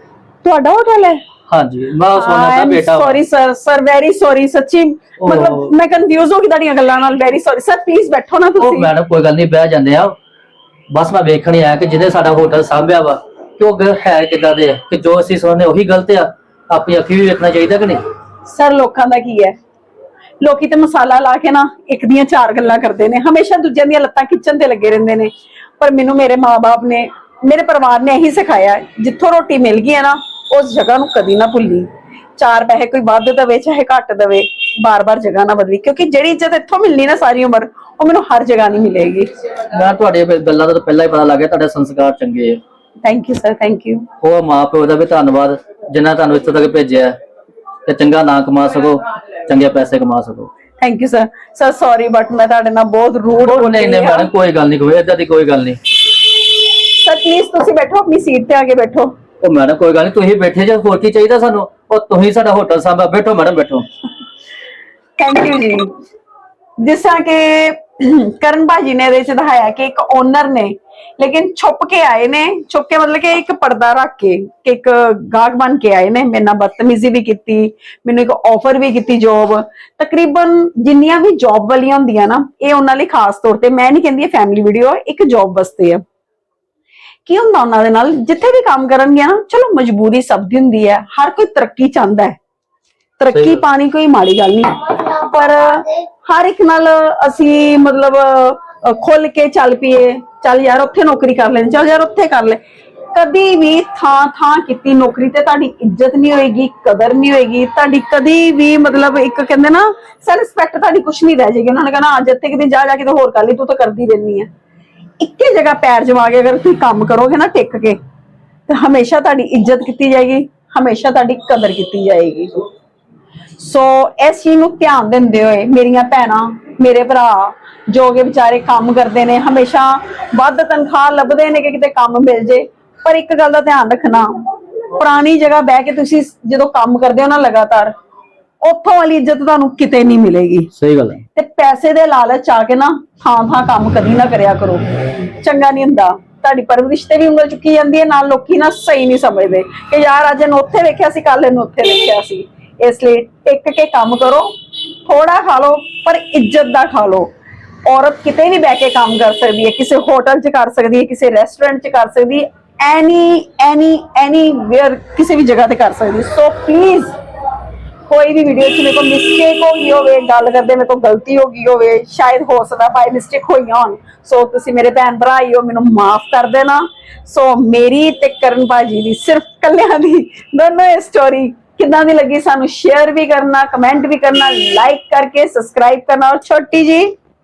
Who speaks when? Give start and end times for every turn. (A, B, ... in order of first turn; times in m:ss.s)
0:00.4-0:01.2 A
0:01.5-0:03.2 B
0:02.1-0:08.9 A
0:05.2-0:05.7 B
0:08.6-0:10.1 B
0:10.9-0:18.0 B
0:18.4-0:19.5 A
0:20.4-0:39.3 A
0:39.7-0:42.6 B
0:43.0-0:44.0 A
0:44.2-0:47.2 B
0:47.8-0:50.5 B
0:50.8-0:54.3 A
0:53.4-0:55.8 B
0:56.8-0:59.1 A
0:59.4-1:03.8 B
1:05.2-1:05.9 A
1:06.8-1:26.0 A
1:27.2-1:32.4 A
1:33.2-1:42.6 A
1:33.3-1:33.6 B
1:43.1-1:54.5 A
1:55.2-1:58.0 A
1:58.7-2:02.6 A
2:03.6-2:14.3 A
2:14.9-2:17.9 A
2:18.6-2:20.7 A
2:20.7-2:21.2 B
2:21.3-2:24.8 A
2:25.4-2:34.5 A
2:35.0-2:37.3 A
2:37.8-2:47.1 A
2:48.1-3:07.1 A